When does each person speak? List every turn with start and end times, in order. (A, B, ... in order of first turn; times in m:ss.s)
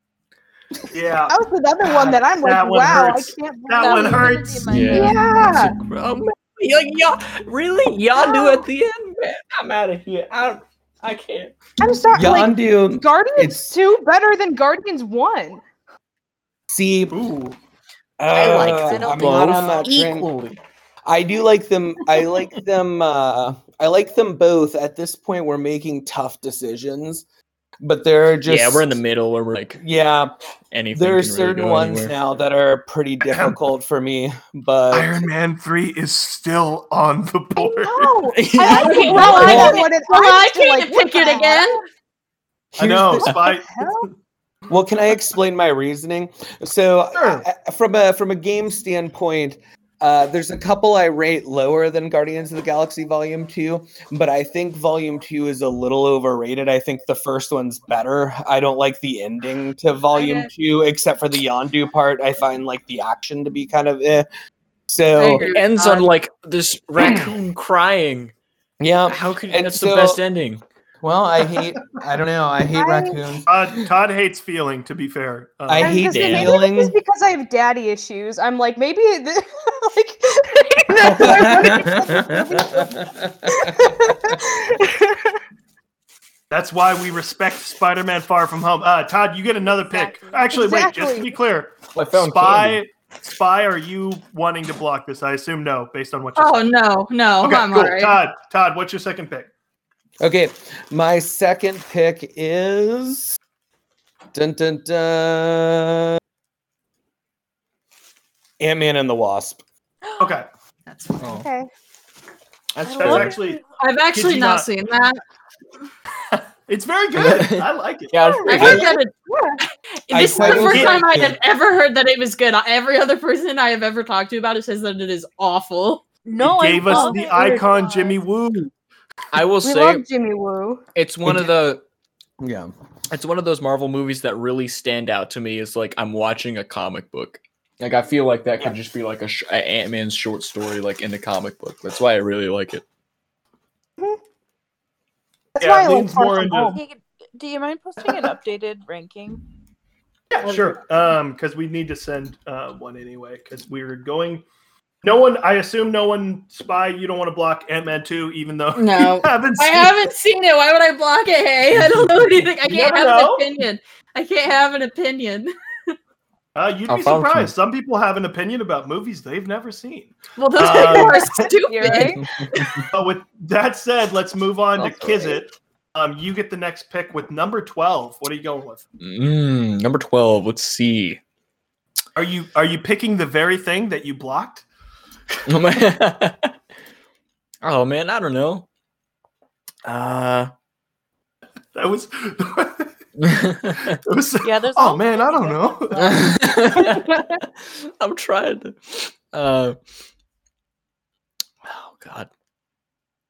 0:00.9-0:04.8 A
0:01.3-0:05.8 B
0:03.8-0:05.2 C
0:04.7-0:11.5 D
0:08.2-0:08.6 B
0:11.8-0:15.6 B
0:12.1-0:13.7 E
0:16.7-0:17.2 E
0:17.1-0:17.6 A
0:18.2-0:20.3 E
0:18.3-0:20.6 D
0:18.3-0:19.9 C
0:21.1-0:27.2 E
0:27.8-0:29.0 E
0:28.5-0:29.8 D
0:29.8-0:30.3 E
0:30.7-0:32.1 D
0:30.9-0:35.2 E
0:33.3-0:33.6 A
0:34.9-0:38.2 A
0:37.6-0:41.8 B
0:38.3-0:39.6 D
0:38.6-0:41.8 F
0:39.4-0:39.8 E
0:42.7-0:43.4 E
0:42.8-0:44.1 A
0:43.2-0:44.1 B
0:44.7-1:04.3 E
0:47.2-0:47.4 A
1:00.2-1:00.5 F
1:04.9-1:05.4 E
1:05.1-1:06.1 F
1:05.4-1:08.3 D
1:07.0-1:07.3 E
1:08.8-1:10.2 E
1:09.1-1:10.6 D
1:11.0-1:13.5 E
1:12.7-1:13.2 B
1:13.5-1:16.1 A
1:15.7-1:17.0 E
1:15.8-1:25.4 B
1:16.1-1:16.5 D
1:21.0-1:24.4 E
1:26.5-1:36.6 A
1:29.7-1:30.5 C
1:30.5-1:31.4 B
1:31.9-1:32.8 D
1:36.4-1:38.2 F
1:37.4-1:39.5 A
1:40.2-1:43.4 E
1:44.3-1:46.2 E
1:48.6-1:49.6 E
1:50.1-1:50.3 C
1:50.2-1:50.5 A
1:50.9-1:51.4 F
1:51.2-1:51.5 D
1:51.3-1:51.7 B
1:52.8-1:53.4 D
1:52.8-1:53.6 C
1:52.9-1:53.6 A
1:53.8-1:55.2 F
1:54.1-1:54.7 A
1:56.3-1:58.6 A
1:57.2-1:59.0 D
1:58.2-1:59.6 B
1:58.4-1:59.1 F
1:58.6-1:58.9 E
2:00.1-2:06.0 F
2:00.1-2:01.4 E
2:00.4-2:01.1 A
2:06.2-2:08.2 C
2:06.4-2:08.7 A
2:06.9-2:07.2 B
2:09.3-2:10.0 D
2:09.6-2:10.8 B
2:11.0-2:11.8 D
2:11.3-2:11.5 E
2:12.4-2:12.7 E
2:13.1-2:22.8 D
2:25.6-2:26.8 B
2:25.6-2:26.8 A
2:26.6-2:29.4 C
2:30.3-2:34.4 A
2:35.0-2:40.0 A
2:38.8-2:45.5 F
2:42.7-2:43.5 A
2:46.6-2:51.5 A
2:46.9-2:47.5 D
2:50.4-2:52.8 F
2:50.6-2:52.2 B
2:52.2-2:52.9 D
2:52.9-2:58.8 A
2:59.0-3:01.2 D
3:02.2-3:04.6 A
3:05.5-3:06.5 D
3:07.6-3:08.7 D
3:09.8-3:10.5 D
3:11.7-3:12.9 A
3:13.2-3:14.0 D
3:13.7-3:16.1 A
3:14.4-3:16.5 C
3:16.0-3:19.8 D
3:21.6-3:22.3 D